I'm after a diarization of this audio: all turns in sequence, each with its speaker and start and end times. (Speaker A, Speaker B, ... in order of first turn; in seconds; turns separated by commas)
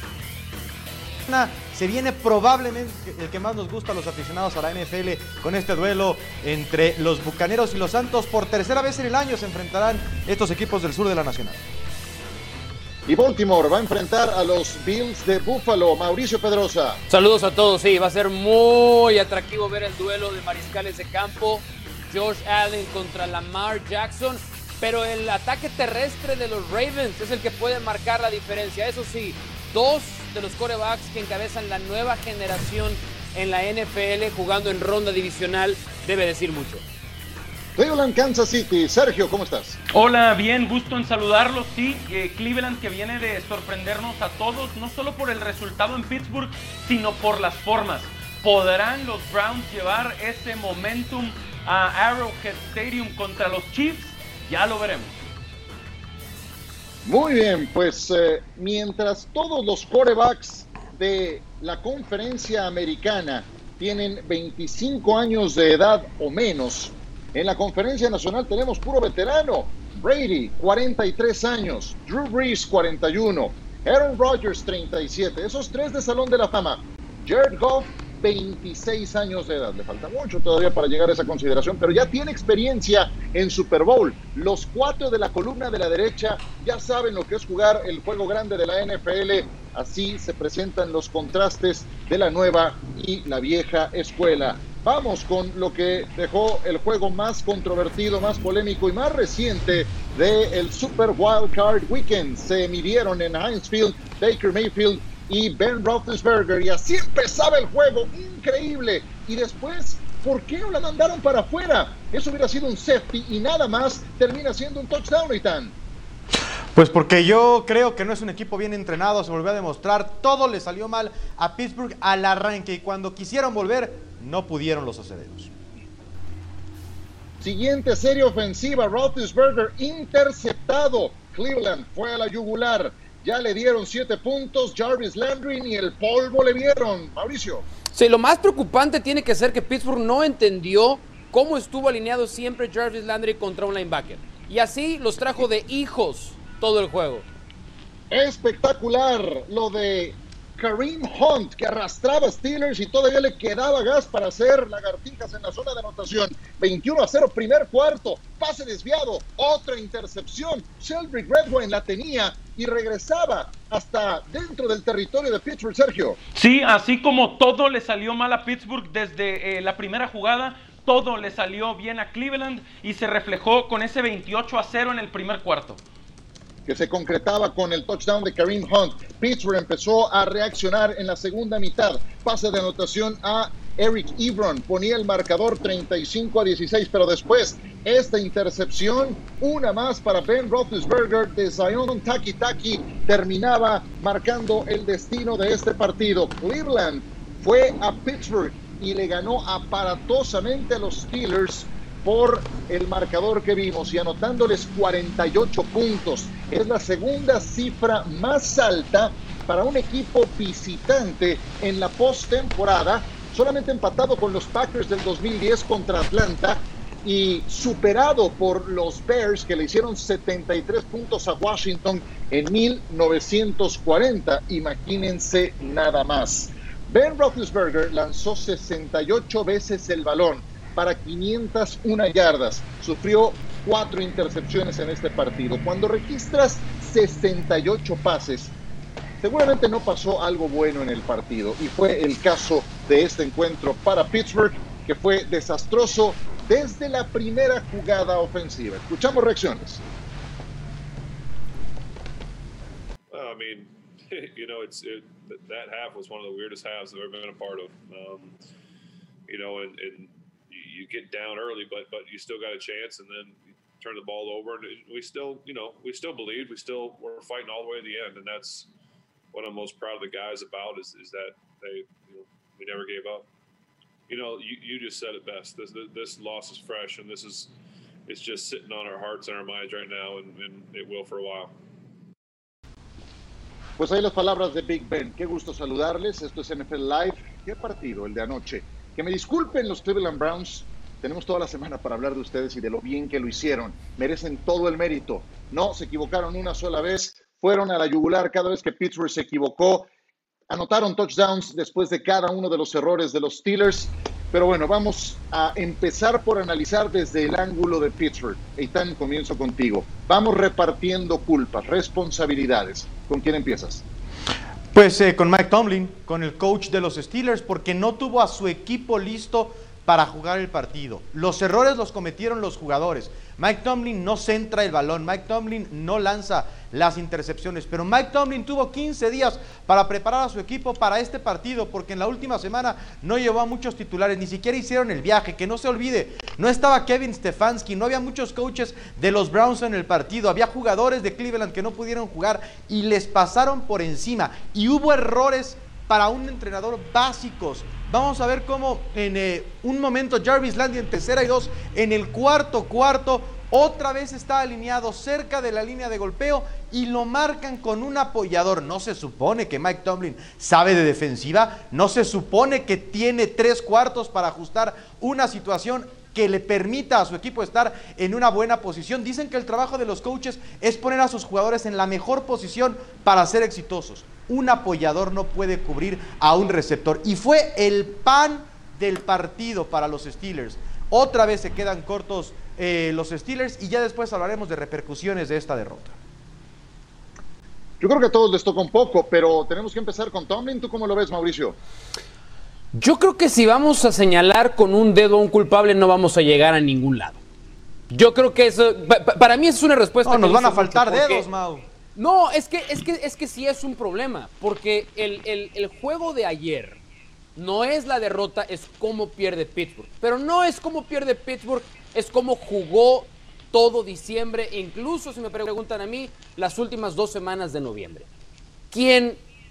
Speaker A: 1.3-11.6, Speaker B: 13.1-17.0, Speaker C: 17.1-36.8, Speaker B: 37.8-39.8, Speaker D: 39.9-55.2, Speaker B: 57.0-115.8, Speaker A: 116.8-125.5, Speaker B: 127.4-137.7, Speaker C: 137.9-147.3, Speaker B: 148.1-166.2, Speaker D: 166.3-175.8, Speaker B: 176.7-238.5, Speaker B: 239.2-249.8, Speaker E: 253.1-258.4, Speaker E: 259.3-268.7, Speaker E: 269.3-273.3, Speaker E: 274.1-277.5, Speaker E: 278.1-281.5, Speaker B: 283.8-299.9, Speaker B: 300.5-313.8, Speaker A: 314.7-386.0, Speaker B: 387.8-391.6, Speaker C: 392.7-397.2, Speaker C: 397.9-401.3, Speaker A: 400.0-401.7, Speaker C: 402.0-406.8, Speaker C: 407.4-418.1, Speaker C: 418.7-419.2